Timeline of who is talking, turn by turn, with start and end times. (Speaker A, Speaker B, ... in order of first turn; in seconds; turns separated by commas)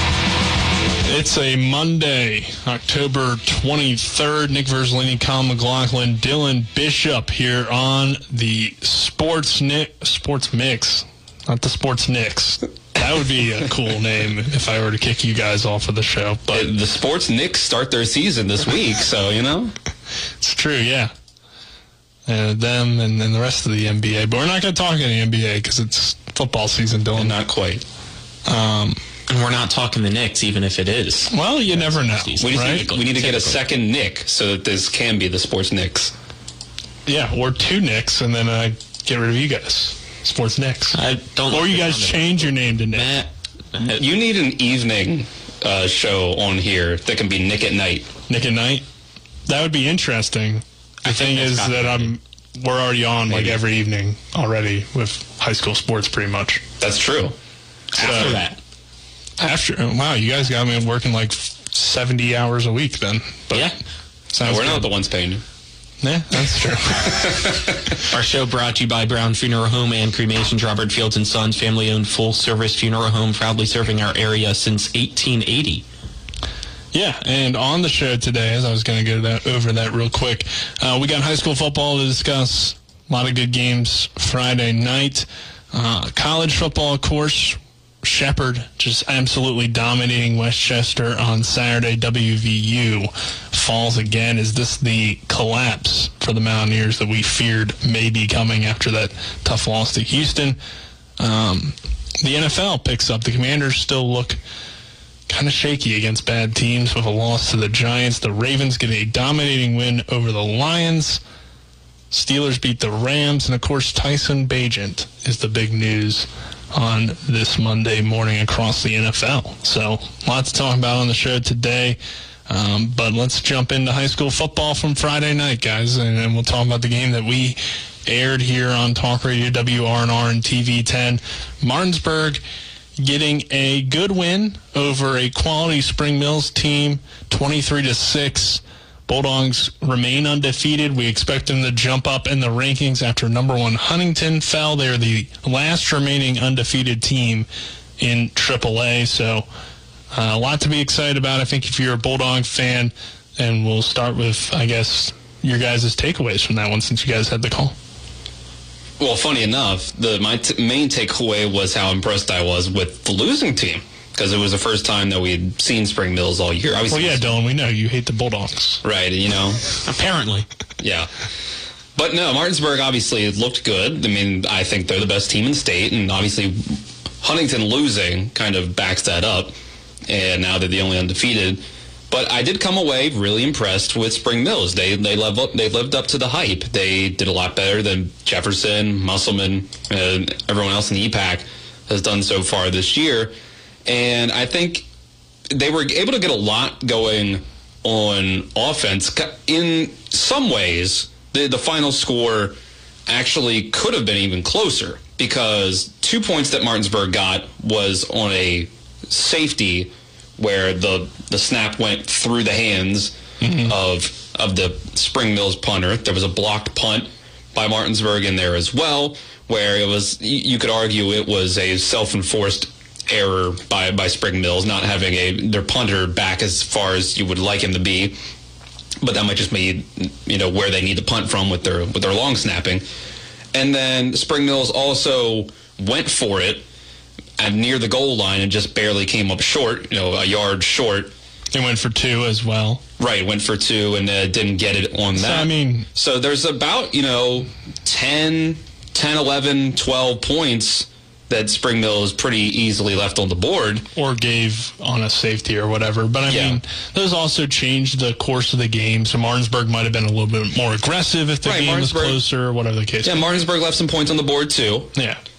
Speaker A: 1.1-16.7, Speaker B: 16.5-19.7, Speaker A: 20.4-21.1, Speaker A: 22.3-27.4, Speaker B: 27.1-27.8, Speaker A: 28.5-29.0, Speaker C: 29.3-33.6, Speaker A: 31.3-32.9, Speaker B: 32.4-36.1, Speaker A: 37.0-41.0, Speaker C: 40.9-44.0, Speaker A: 41.5-43.2, Speaker B: 43.8-48.1, Speaker A: 48.3-48.8, Speaker A: 49.5-56.6, Speaker C: 51.0-52.1, Speaker B: 53.3-53.6, Speaker B: 56.8-57.3, Speaker C: 58.0-58.6, Speaker A: 58.0-58.4, Speaker B: 58.0-58.4, Speaker A: 59.4-63.7, Speaker A: 64.3-64.9, Speaker B: 64.4-65.4, Speaker A: 66.0-67.3, Speaker B: 67.2-67.5, Speaker C: 68.1-75.8, Speaker A: 76.9-100.6, Speaker A: 101.2-104.4, Speaker A: 105.3-111.2, Speaker A: 112.1-132.4, Speaker A: 133.0-147.5, Speaker A: 148.0-149.4, Speaker A: 150.1-157.7, Speaker B: 159.0-167.2, Speaker A: 166.9-168.8, Speaker B: 168.8-169.6, Speaker C: 169.8-170.4, Speaker B: 170.8-171.1, Speaker B: 171.9-179.5, Speaker B: 180.1-193.3, Speaker B: 193.8-194.8, Speaker B: 195.5-202.6, Speaker B: 203.1-228.2, Speaker A: 213.4-213.8, Speaker B: 229.0-232.8, Speaker B: 233.5-236.6, Speaker B: 237.4-241.1, Speaker A: 241.5-242.8, Speaker B: 243.0-253.8, Speaker A: 245.2-245.9, Speaker A: 253.9-263.2, Speaker B: 256.3-256.6, Speaker B: 261.4-262.2, Speaker B: 263.0-264.9, Speaker A: 264.9-265.2